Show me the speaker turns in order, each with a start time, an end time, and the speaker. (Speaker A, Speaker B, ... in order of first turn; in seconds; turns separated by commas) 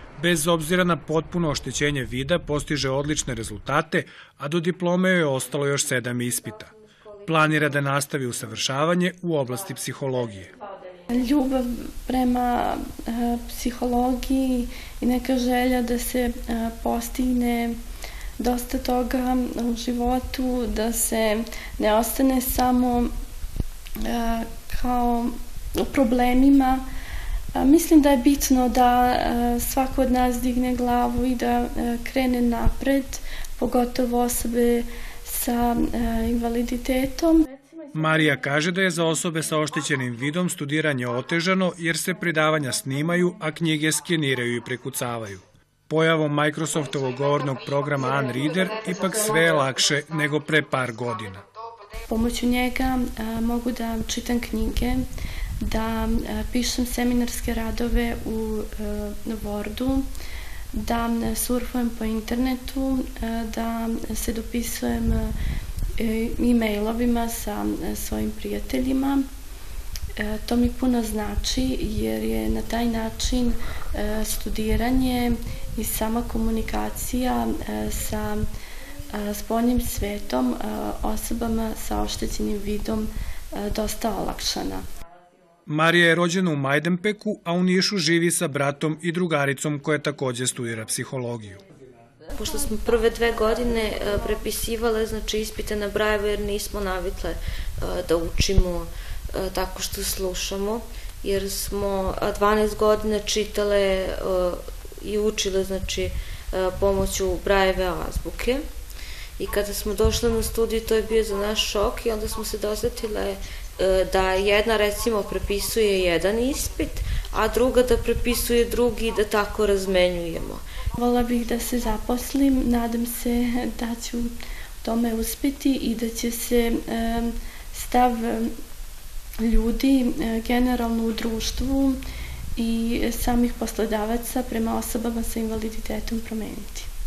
Speaker A: 0.2-6.7, Speaker B: 6.1-7.9, Speaker A: 7.3-10.5, Speaker C: 11.1-17.8, Speaker C: 18.4-23.1, Speaker C: 24.0-26.8, Speaker C: 27.6-37.9, Speaker A: 38.0-51.5, Speaker C: 52.1-55.0, Speaker C: 55.6-60.0, Speaker C: 60.7-65.3, Speaker C: 66.0-69.2, Speaker C: 70.2-78.5, Speaker C: 79.1-84.8, Speaker A: 85.7-91.6, Speaker B: 92.3-108.7, Speaker B: 109.4-120.6, Speaker C: 121.0-124.3, Speaker C: 124.8-128.5, Speaker C: 129.4-132.0, Speaker C: 132.6-136.9